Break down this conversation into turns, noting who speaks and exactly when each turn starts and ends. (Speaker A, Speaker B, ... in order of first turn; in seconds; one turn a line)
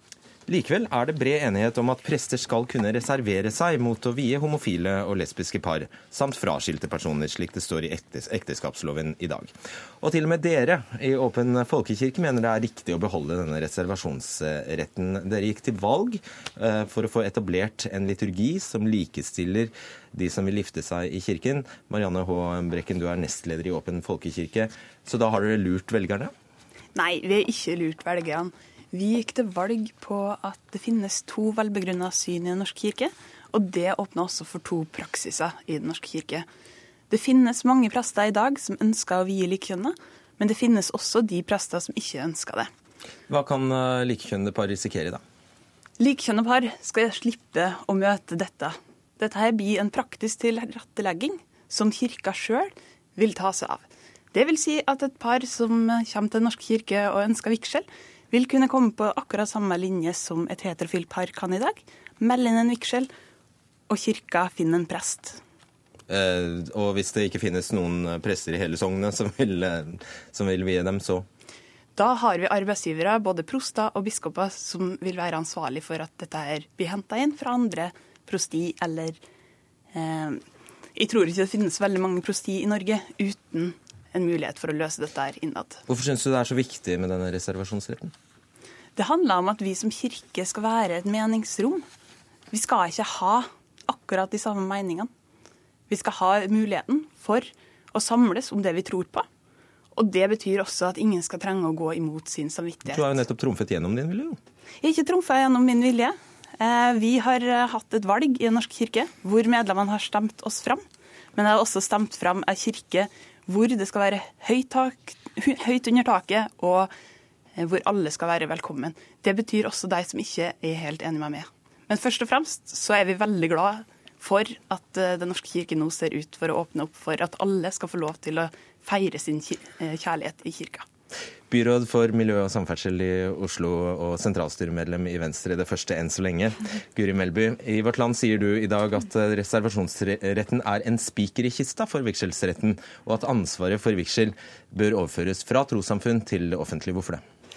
Speaker A: 0.5-26.3
Speaker B: 26.9-36.5
Speaker B: 37.1-42.7
Speaker A: 43.3-45.2
Speaker B: 46.0-63.1
Speaker B: 63.9-65.4
Speaker A: 66.1-71.2
Speaker B: 72.0-79.2
Speaker B: 79.9-80.4
Speaker B: 80.9-85.8
Speaker A: 85.9-88.1
Speaker B: 89.0-91.9
Speaker B: 92.5-95.1
Speaker B: 95.9-99.2
Speaker B: 99.9-103.2
Speaker A: 102.9-104.4
Speaker B: 104.8-110.8
Speaker B: 111.3-116.9
Speaker B: 117.5-130.8
Speaker A: 131.5-147.2